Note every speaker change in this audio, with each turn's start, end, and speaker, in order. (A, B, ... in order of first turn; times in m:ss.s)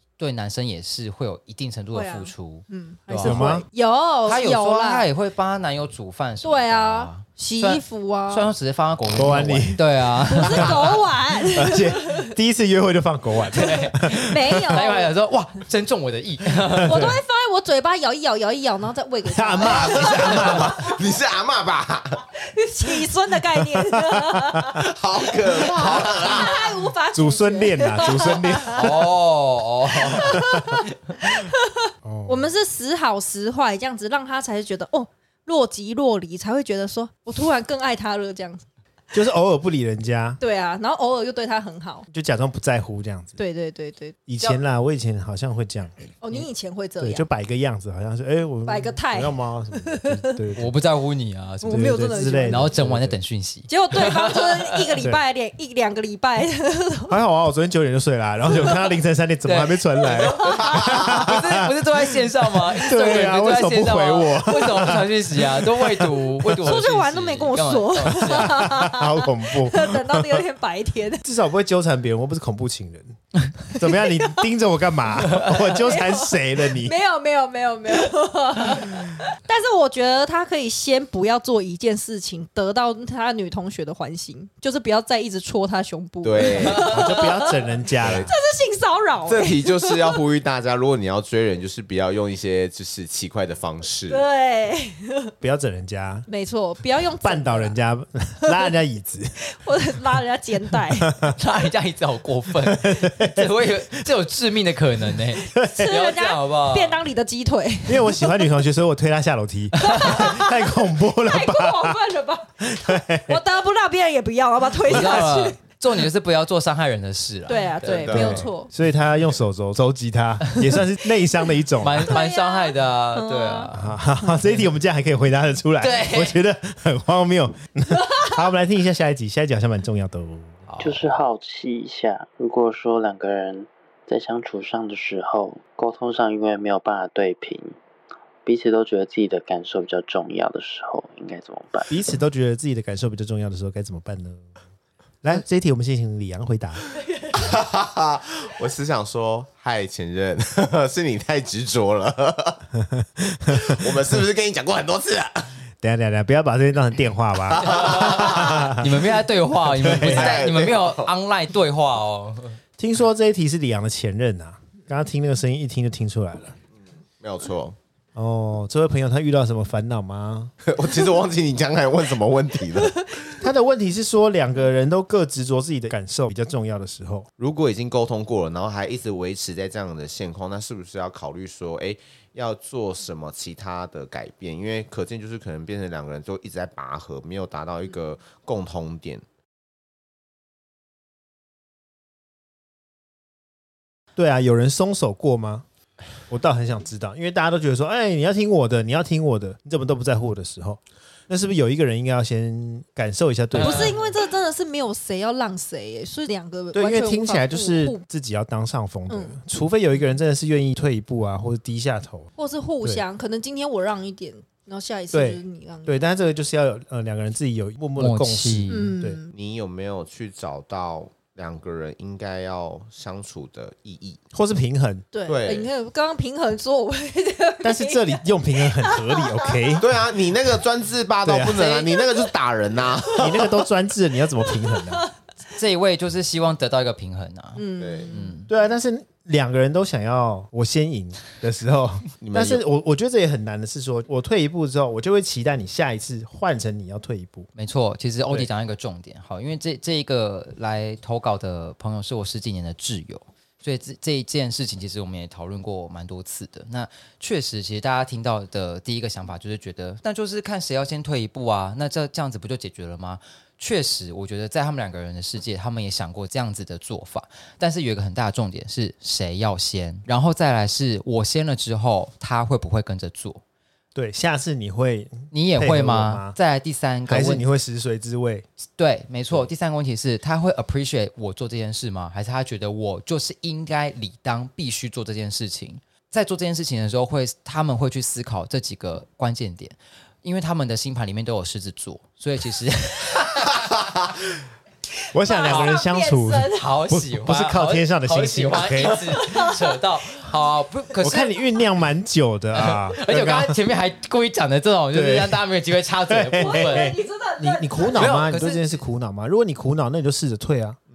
0:00.2-0:03.4 A
0:01.9-0:05.1 B
0:03.2-0:03.6 C
0:04.2-0:11.0 A
0:06.4-0:08.5 B
0:09.1-0:11.0 C
0:10.3-0:12.3 B
0:11.5-0:14.8 C
0:13.5-0:17.2 A
0:14.2-0:15.1 B
0:16.7-0:17.2 C
0:16.8-0:20.7 B
0:19.2-0:20.9 C
0:19.6-0:22.2 D
0:22.4-0:24.8 B
0:23.6-0:24.8 C
0:24.8-0:26.7 D
0:25.6-0:28.8 B
0:27.1-0:29.1 C
0:28.7-0:30.4 A
0:30.0-0:31.7 B
0:30.4-0:30.6 C
0:32.0-0:32.5 C
0:32.2-0:38.6 B
0:39.1-0:40.4 C
0:40.4-0:42.0 B
0:42.1-0:43.4 C
0:43.4-0:44.2 B
0:44.3-0:46.1 C
0:46.2-0:47.2 B
0:47.0-0:50.7 C
0:48.6-0:50.4 B
0:50.6-0:54.8 A
0:51.6-0:52.7 B
0:51.6-0:53.2 C
0:53.7-0:57.2 B
0:57.1-1:01.7 C
0:59.4-1:08.7 A
1:00.4-1:00.7 B
1:02.5-1:06.2 C
1:06.6-1:11.2 B
1:08.1-1:10.4 C
1:11.2-1:13.2 C
1:13.7-1:17.0 C
1:13.8-1:14.4 B
1:15.7-1:27.6 B
1:26.2-1:27.0 D
1:26.8-1:28.3 C
1:28.0-1:28.3 D
1:28.2-1:30.2 B
1:29.2-1:34.2 D
1:34.1-1:35.3 B
1:35.4-1:36.3 C
1:36.3-1:37.8 B
1:37.2-1:39.3 C
1:39.4-1:41.1 B
1:41.0-1:41.4 C
1:41.4-1:47.0 A
1:42.6-1:43.5 C
1:45.5-1:45.9 C
1:45.6-1:48.4 B
1:47.9-1:52.0 C
1:49.8-1:55.6 B
1:52.6-1:53.4 C
1:54.8-1:58.3 A
1:57.5-1:58.7 B
1:57.8-1:58.5 D
1:58.1-2:02.1 C
2:01.8-2:04.0 A
2:02.0-2:03.7 B
2:03.7-2:10.6 C
2:05.8-2:06.4 A
2:10.7-2:11.1 A
2:10.8-2:17.8 E
2:18.4-2:22.0 E
2:21.9-2:24.4 C
2:25.2-2:26.8 C
2:27.3-2:32.6 D
2:32.7-2:34.2 C
2:33.5-2:35.5 D
2:35.8-2:39.0 C
2:37.6-2:38.7 D
2:37.7-2:42.6 A
2:39.7-2:40.4 C
2:39.8-2:41.1 D
2:42.8-2:46.6 C
2:47.2-2:47.8 D
2:48.1-2:50.5 C
2:50.6-2:53.3 D
2:53.4-2:57.3 C
2:57.4-3:09.2 D
3:14.2-3:15.6 C
3:16.3-3:24.0 C
3:23.5-3:24.1 A
3:23.6-3:28.0 B
3:26.7-3:32.3 C
3:29.1-3:29.4 B
3:32.4-3:36.0 B
3:35.1-3:39.2 C
3:38.0-3:38.9 A
3:38.7-3:39.3 B
3:39.3-3:44.2 D
3:44.3-3:45.1 C
3:45.1-3:49.8 B
3:45.2-3:45.7 D
3:47.6-3:49.9 C
3:49.8-3:53.5 D
3:51.2-3:51.7 C
3:51.5-3:52.0 A
3:53.2-3:55.0 C
3:55.5-3:58.5 A
3:57.6-3:58.3 B
3:57.8-3:58.1 D
3:58.5-4:07.5 C
4:02.2-4:02.6 D
4:07.6-4:33.4 A
4:33.9-4:36.4 C
4:35.3-4:37.4 A
4:37.1-4:38.4 C
4:38.8-4:53.7 A
4:55.1-4:59.3 C
4:55.2-4:56.7 B
4:55.5-4:55.8 A
4:56.5-5:01.3 A
4:59.2-4:59.6 B
5:01.0-5:03.6 C
5:02.5-5:07.0 A
5:04.9-5:05.4 C
5:06.1-5:10.8 C
5:06.4-5:08.1 B
5:08.0-5:08.7 A